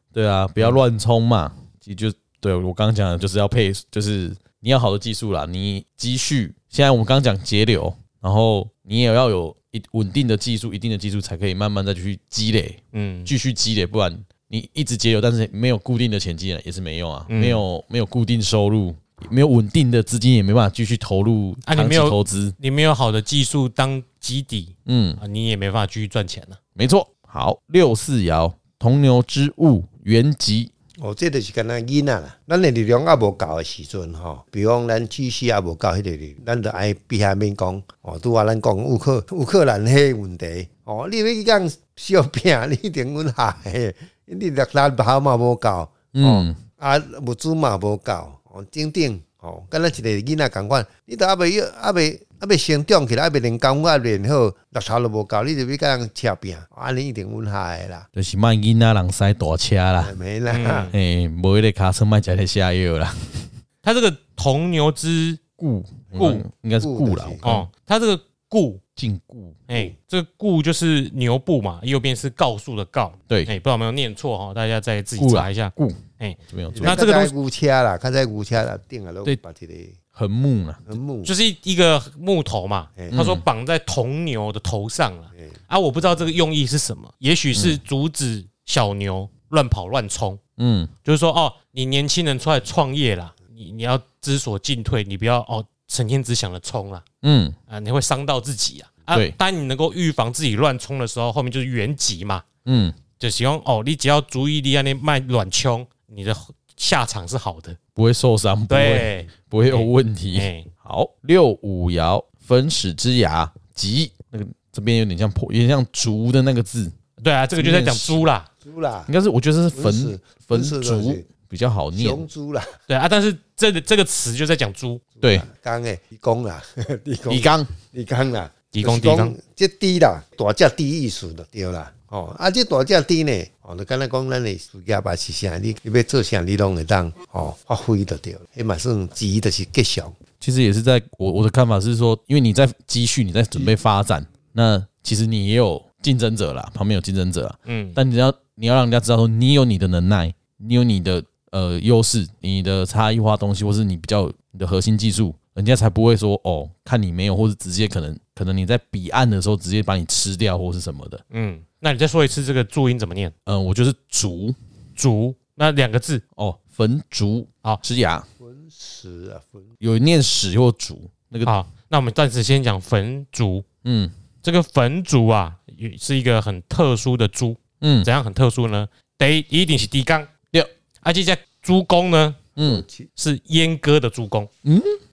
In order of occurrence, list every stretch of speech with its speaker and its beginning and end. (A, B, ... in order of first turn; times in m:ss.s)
0:00.1-0:22.6 A
0:12.9-0:13.3 B
0:17.3-0:17.6 B
0:21.6-0:26.6 B
0:24.8-0:25.2 A
0:26.8-0:30.7 A
0:31.0-0:58.1 C
0:46.1-0:46.6 A
0:58.1-1:00.1 A
1:00.0-1:00.9 C
1:00.5-1:00.9 B
1:00.9-1:03.5 A
1:03.8-1:05.4 B
1:05.6-1:07.6 A
1:06.1-1:07.6 C
1:06.1-1:06.4 B
1:07.4-1:08.8 B
1:09.0-1:09.6 A
1:09.7-1:17.3 B
1:15.2-1:17.0 A
1:16.7-1:20.0 C
1:20.1-1:20.8 A
1:20.8-1:21.3 C
1:21.2-1:30.4 B
1:23.0-1:23.2 C
1:23.1-1:23.4 A
1:27.5-1:27.8 A
1:30.6-1:30.9 A
1:31.0-1:37.0 B
1:37.2-1:37.6 A
1:37.7-1:42.4 B
1:42.6-1:43.0 A
1:43.2-1:47.8 B
1:48.0-1:56.9 A
1:48.7-1:50.7 B
1:57.2-1:58.5 B
1:57.6-1:58.2 A
1:58.6-1:59.1 C
1:59.1-2:02.2 A
1:59.7-2:01.3 C
2:01.9-2:02.7 C
2:02.9-2:05.0 B
2:05.2-2:20.2 C
2:07.3-2:07.7 A
2:08.7-2:09.4 B
2:20.4-2:41.2 A
2:27.6-2:28.0 B
2:41.3-2:43.3 B
2:43.4-2:44.6 A
2:45.0-2:46.2 B
2:46.4-2:48.2 A
2:48.4-2:49.7 C
2:49.8-2:51.5 A
2:51.4-2:53.6 B
2:53.8-2:54.1 A
2:54.4-3:00.3 B
2:57.8-2:58.1 A
3:01.0-3:02.4 B
3:02.6-3:02.8 A
3:02.6-3:03.1 C
3:03.2-3:04.5 B
3:04.6-3:05.0 A